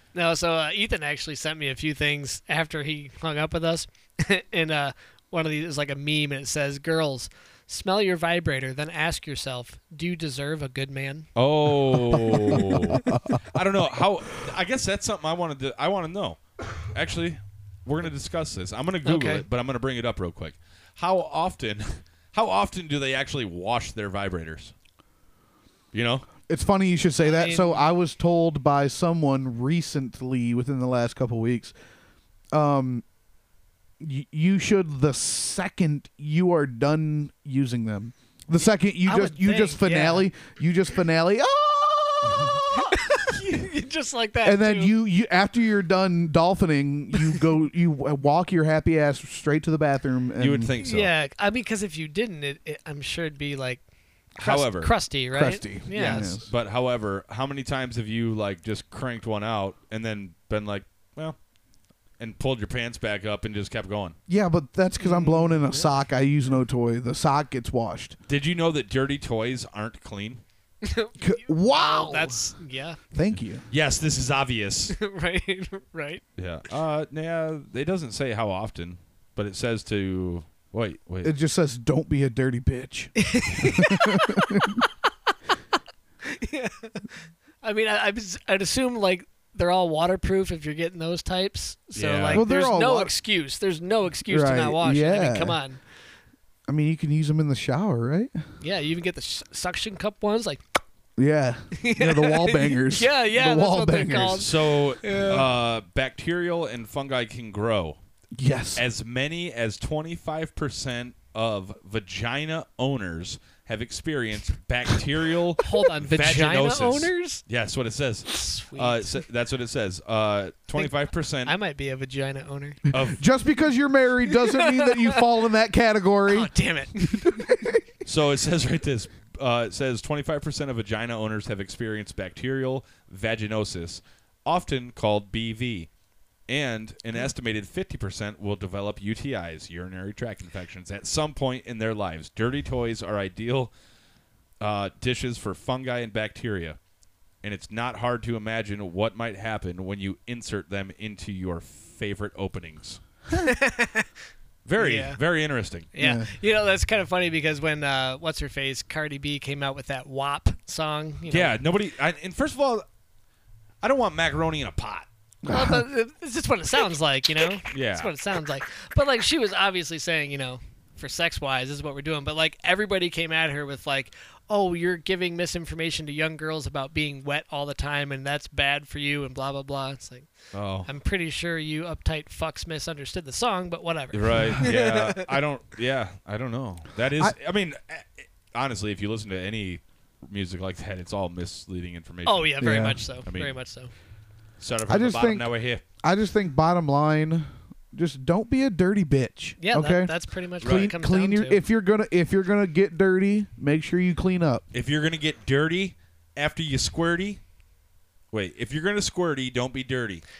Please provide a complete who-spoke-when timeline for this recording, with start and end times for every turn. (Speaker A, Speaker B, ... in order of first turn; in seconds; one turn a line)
Speaker A: 0.1-11.3
Speaker B: 11.3-24.7
Speaker C: 12.1-13.6
Speaker A: 19.0-19.4
Speaker B: 25.9-26.3
Speaker C: 26.5-31.7
Speaker A: 27.2-27.8
Speaker C: 32.5-33.0
Speaker C: 34.0-43.4
Speaker A: 39.0-40.3
Speaker A: 42.7-44.9
Speaker C: 44.4-50.7
Speaker B: 50.4-51.1
Speaker A: 50.8-53.8
Speaker A: 54.3-56.3
Speaker B: 54.3-54.9
Speaker C: 55.3-56.5
Speaker B: 55.9-61.4
Speaker B: 62.2-64.1
Speaker C: 64.3-68.2
Speaker A: 65.0-65.9
Speaker B: 68.3-70.4
Speaker A: 70.8-73.0
Speaker C: 71.2-72.5
Speaker C: 73.1-73.6
Speaker B: 73.5-74.9
Speaker A: 74.9-76.2
Speaker B: 76.4-81.3
Speaker C: 81.2-84.8
Speaker A: 83.2-84.7
Speaker A: 86.2-95.8
Speaker B: 91.9-92.5
Speaker C: 92.3-93.1
Speaker C: 94.3-95.6
Speaker C: 96.7-98.4
Speaker A: 98.6-100.6
Speaker C: 101.2-104.5
Speaker A: 101.8-105.5
Speaker B: 104.3-108.0
Speaker C: 108.3-108.8
Speaker B: 108.7-121.5
Speaker A: 115.6-117.4
Speaker A: 118.3-119.1
Speaker A: 120.8-122.8
Speaker B: 122.9-123.2
Speaker C: 122.9-126.5
Speaker A: 124.4-125.2
Speaker A: 126.3-127.5
Speaker C: 127.1-127.8
Speaker B: 128.0-135.9
Speaker B: 136.5-143.7
Speaker B: 144.6-146.8
Speaker B: 147.4-153.0
Speaker A: 153.3-154.1
Speaker B: 154.6-155.9
Speaker A: 154.8-155.2
Speaker A: 155.9-161.6
Speaker C: 156.0-156.3
Speaker B: 161.3-162.8
Speaker B: 163.8-165.1
Speaker C: 165.4-165.8
Speaker A: 165.5-180.3
Speaker B: 167.7-168.1
Speaker B: 180.5-180.9
Speaker A: 180.8-185.3
Speaker B: 184.1-193.5
Speaker A: 192.2-193.9
Speaker C: 192.6-193.0
Speaker B: 194.6-195.8
Speaker C: 194.9-195.5
Speaker C: 196.0-204.6
Speaker A: 199.6-201.6
Speaker B: 200.6-200.9
Speaker B: 204.7-207.4
Speaker B: 208.3-210.2